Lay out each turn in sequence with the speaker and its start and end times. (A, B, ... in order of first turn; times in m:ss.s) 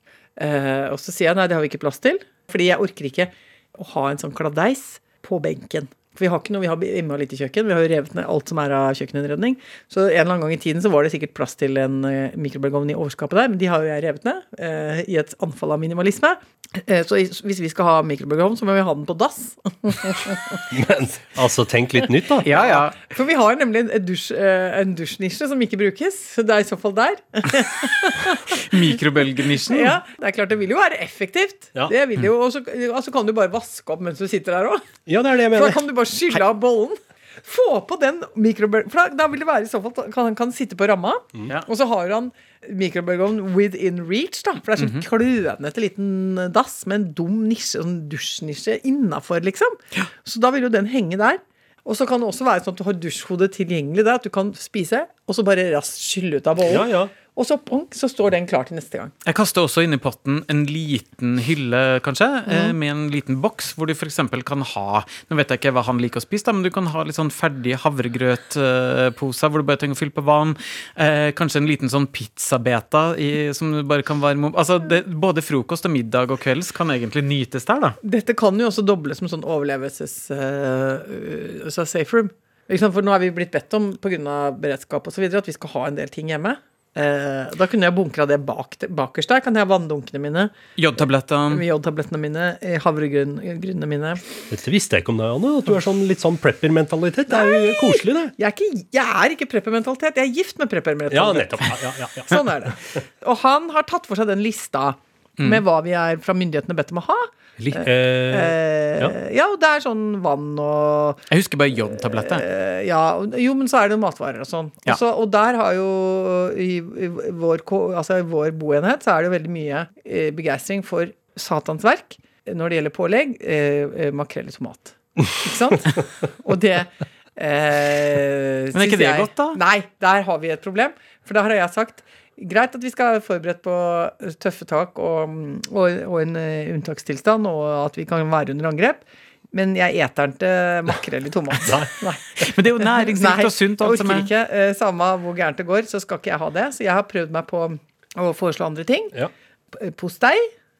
0:00.4-0:20.6 A
0:20.7-0:22.5 B
0:22.4-0:23.0 C
0:22.5-0:28.9 A
0:28.5-0:30.0 C
0:29.6-0:34.8 A
0:35.1-0:35.8 B
0:35.5-0:59.1 A
0:44.8-0:45.0 C
0:56.6-0:57.1 B
0:59.2-1:18.0 C
1:02.5-1:02.7 A
1:18.0-1:34.2 A
1:30.8-1:31.6 C
1:34.5-1:38.3 B
1:37.3-1:51.2 A
1:41.1-1:43.0 B
1:47.6-1:49.2 B
1:51.3-1:52.4 C
1:51.9-2:29.2 A
2:08.7-2:09.6 C
2:21.6-2:21.9 B
2:22.4-2:24.3 C
2:29.7-2:30.5 A